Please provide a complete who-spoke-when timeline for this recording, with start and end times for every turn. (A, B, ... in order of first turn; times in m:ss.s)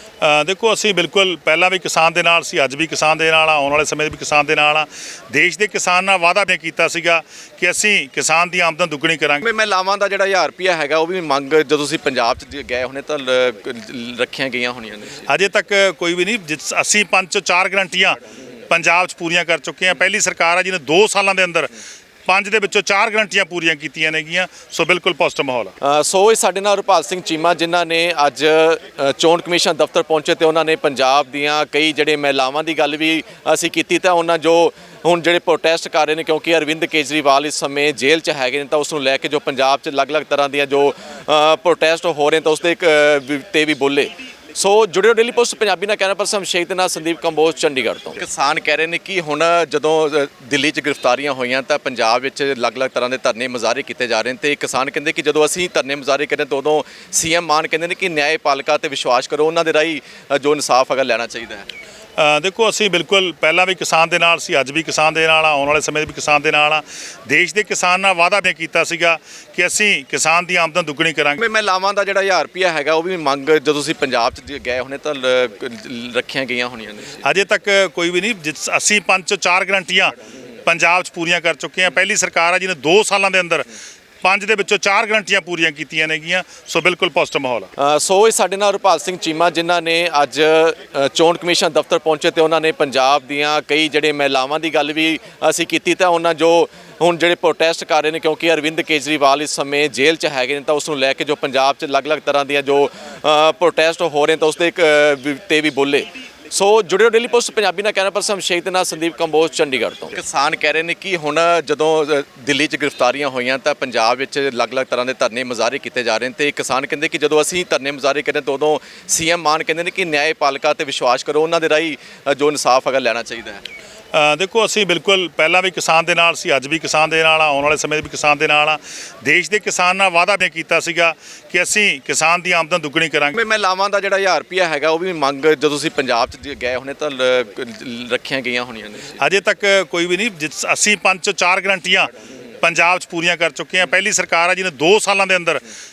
0:00.2-0:09.4 A
0:09.4-0:15.3 B
0:15.3-0:21.7 A
0:22.3-0:25.7 A
0:25.8-1:01.7 B
1:02.2-1:11.4 A
1:11.4-1:17.2 B
1:17.2-1:23.7 A
1:24.2-1:27.7 A
1:27.8-2:03.6 B
2:04.1-2:13.4 A
2:13.3-2:19.2 B
2:19.2-2:22.1 A
2:22.6-2:25.6 A